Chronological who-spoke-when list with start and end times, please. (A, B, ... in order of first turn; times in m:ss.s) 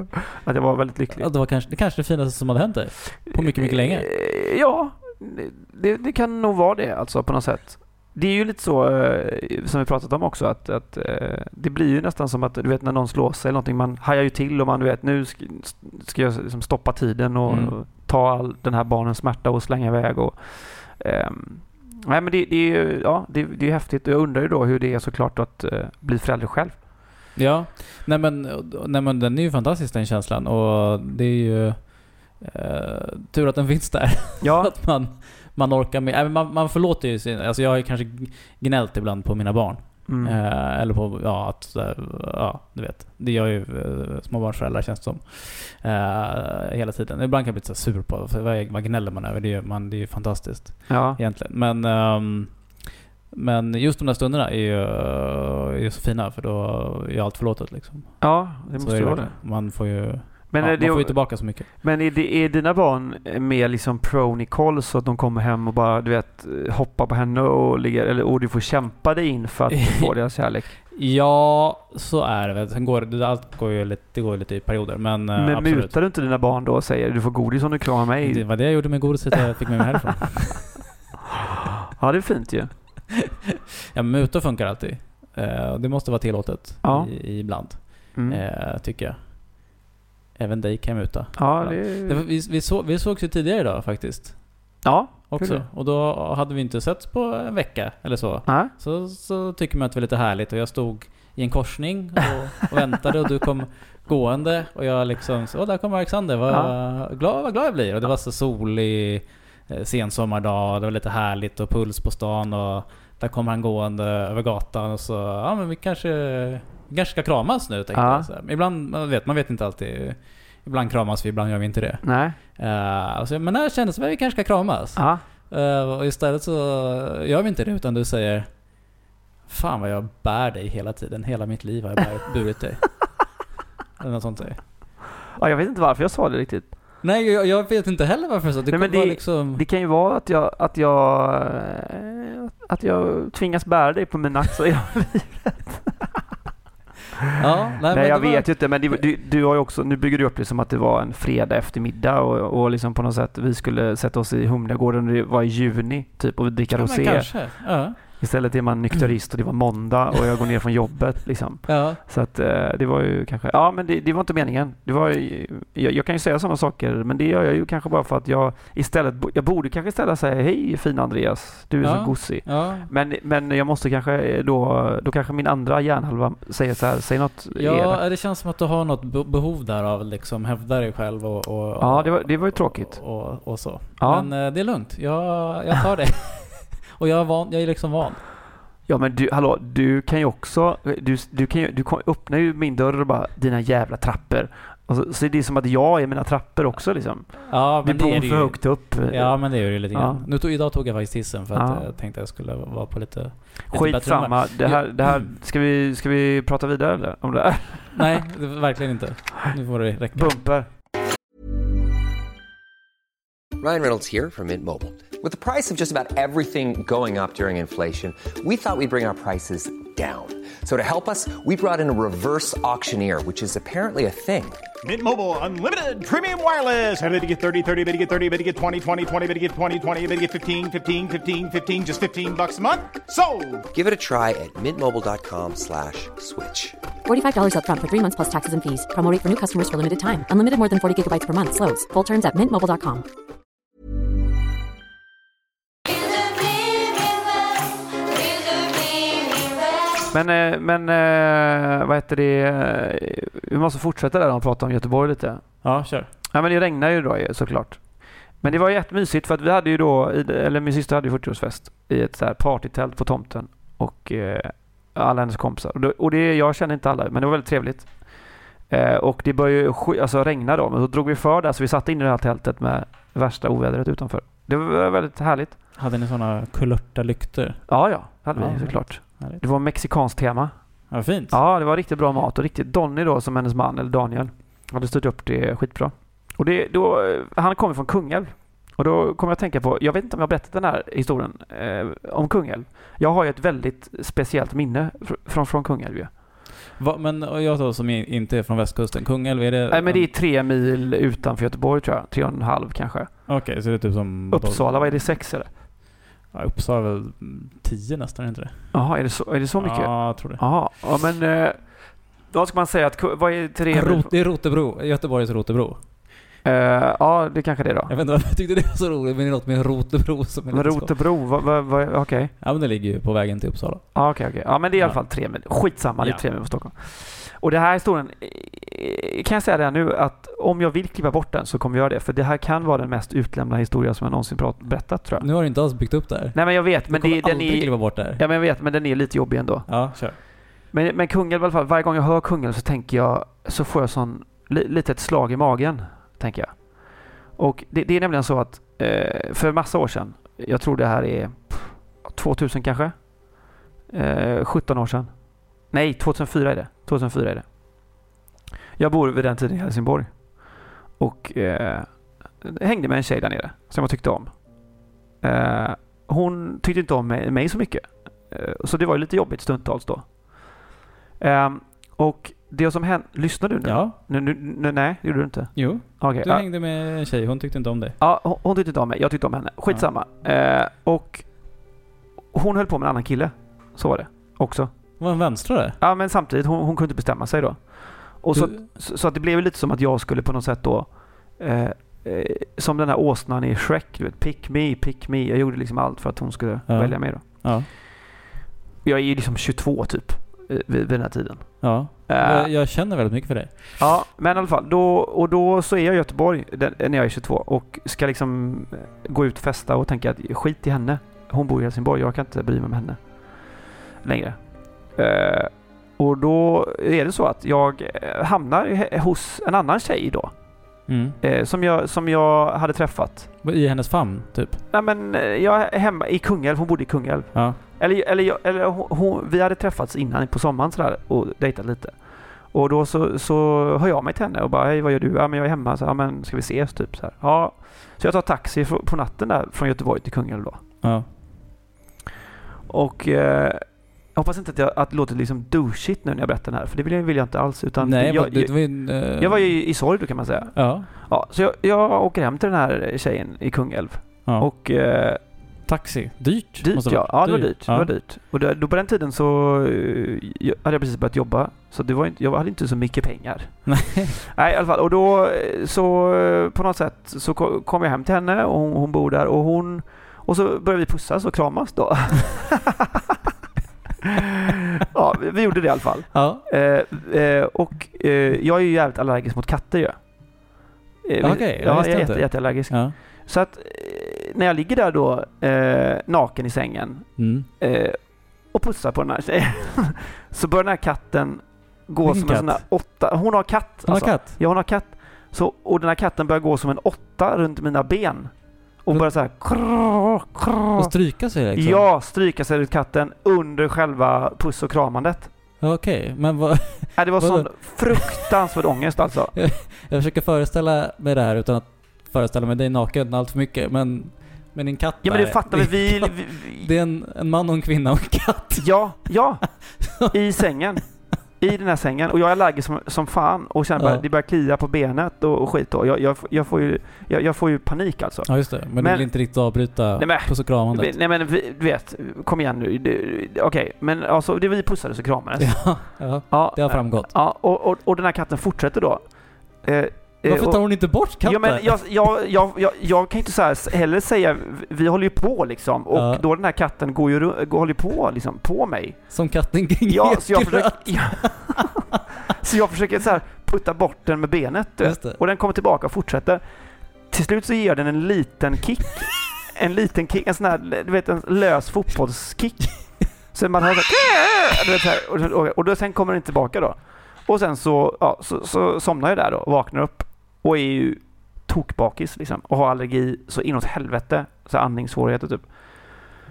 0:00.4-0:01.3 A
0:01.2-0:04.1 B
0:03.3-0:26.8 A
0:17.5-0:17.8 B
0:27.4-1:01.7 B
0:34.4-0:34.7 A
0:40.1-0:40.4 A
0:50.9-0:51.2 A
0:58.2-0:59.9 A
1:00.5-1:10.8 A
1:09.7-1:10.2 B
1:10.7-1:16.0 B
1:15.4-1:19.3 A
1:18.2-1:20.8 B
1:22.0-1:22.7 A
1:23.9-1:29.6 B
1:26.8-1:27.6 A
1:28.1-1:28.4 A
1:30.4-2:13.2 B
1:31.4-1:32.2 A
1:34.8-1:35.6 A
1:38.5-1:38.7 A
1:46.5-1:46.7 A
1:57.9-1:58.3 A
2:02.0-2:02.4 A
2:05.0-2:05.2 A
2:14.0-2:14.9 B
2:15.4-2:16.7 A
2:17.0-2:19.7 B
2:18.7-2:26.1 A
2:27.4-2:29.0 B
2:27.9-2:58.0 A
2:36.7-2:38.2 B
2:41.7-2:42.0 B
2:51.8-2:52.9 B
2:57.5-3:08.3 B
3:01.8-3:04.3 A
3:08.9-3:20.3 A
3:17.5-3:25.3 B
3:21.5-3:21.8 A
3:23.7-3:28.1 A
3:28.0-3:30.5 B
3:30.1-3:30.7 A
3:33.6-3:44.6 C
3:44.8-3:53.6 D
3:53.7-3:56.8 C
3:57.1-4:03.0 E
4:10.1-4:35.6 A
4:15.6-4:16.1 B
4:35.8-4:39.4 B
4:37.7-4:56.1 A
4:40.9-4:41.4 B
4:56.8-5:00.1 B
4:59.7-5:03.4 A
5:03.3-5:05.1 B
5:04.3-5:05.5 A
5:06.2-5:08.9 B
5:08.7-5:14.1 A
5:09.6-5:10.4 B
5:13.7-5:15.9 B
5:16.4-5:17.9 A
5:17.9-5:21.0 B
5:20.5-5:22.3 A
5:22.4-5:26.2 B
5:23.9-5:35.3 A
5:35.2-5:38.2 B
5:36.3-5:57.9 A
5:39.7-5:40.2 B
5:58.8-6:10.6 A
6:11.2-6:16.4 A
6:13.6-6:14.0 B
6:15.6-6:18.0 B
6:18.0-6:21.8 A
6:22.3-6:25.0 A
6:25.0-6:25.8 B
6:25.8-6:37.8 A
6:28.3-6:28.6 B
6:36.7-6:37.7 B
6:38.8-6:42.5 A
6:41.6-6:43.8 B
6:43.8-7:03.3 A
7:00.9-7:01.2 B
7:03.4-7:04.6 B
7:04.7-7:20.8 A
7:07.3-7:07.6 B
7:20.8-7:21.1 B
7:22.7-7:35.6 A
7:27.8-7:29.8 B
7:30.6-7:30.9 B
7:35.2-7:37.9 B
7:36.6-7:52.7 A
7:43.7-7:44.1 B
7:54.9-8:25.3 A
7:56.1-7:56.4 B
8:01.2-8:03.0 B
8:07.2-8:07.5 B
8:12.0-8:12.8 B
8:13.9-8:14.4 B
8:20.8-8:21.9 B
8:25.6-8:28.3 B
8:27.0-8:29.4 A
8:29.3-8:40.4 B
8:35.0-8:36.7 A
8:38.6-9:11.7 A
8:43.8-8:44.0 B
8:48.3-8:51.0 B
8:55.4-8:57.1 B
9:00.2-9:01.8 B
9:05.9-9:06.2 B
9:09.1-9:11.7 B
9:12.3-9:36.1 A
9:14.8-9:15.2 B